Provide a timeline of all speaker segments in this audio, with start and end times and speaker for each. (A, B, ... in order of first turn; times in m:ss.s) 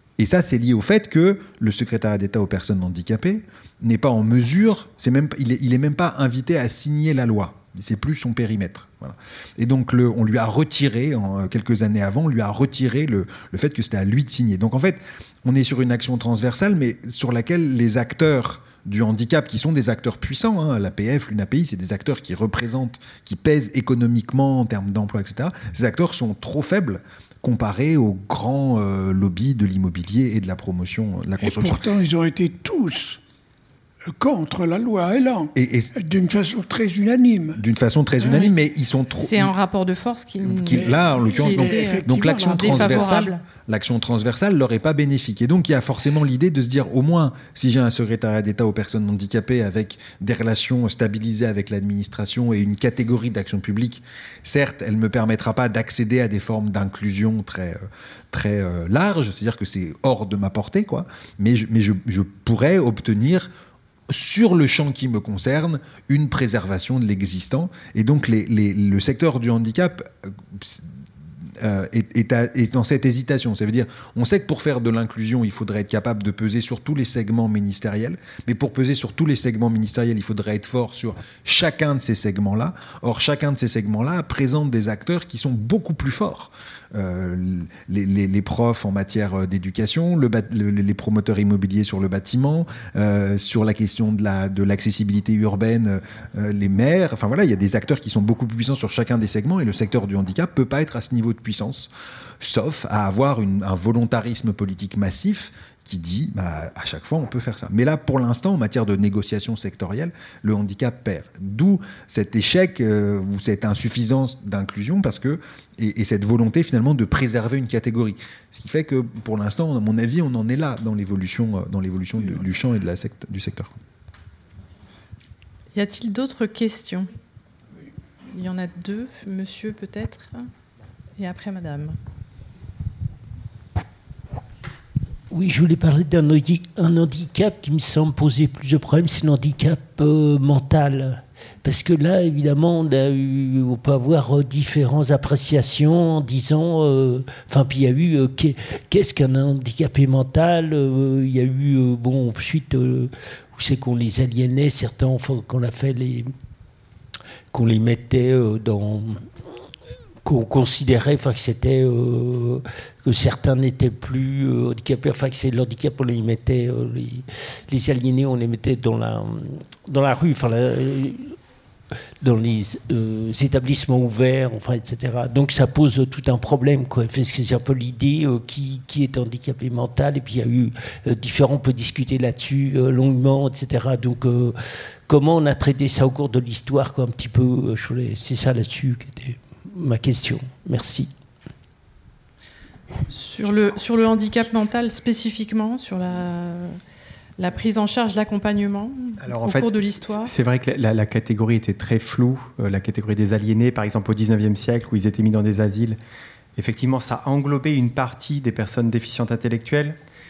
0:00.2-0:31.8 A
0:31.4-0:33.2 B
0:34.1-0:37.6 B
0:35.6-0:35.9 A
0:37.6-0:39.5 A
0:39.1-0:43.4 C
0:40.4-1:03.5 A
0:40.7-0:43.3 B
1:04.1-1:10.9 A
1:11.6-2:03.7 A
2:05.7-2:07.1 C
2:08.3-2:10.4 C
2:11.2-2:12.0 C
2:15.3-2:36.3 D
2:37.5-2:39.3 D
2:40.2-2:51.4 D
2:52.2-3:11.1 D
3:13.1-3:16.8 C
3:17.4-3:20.3 C
3:19.2-3:26.0 E
3:26.6-3:30.0 E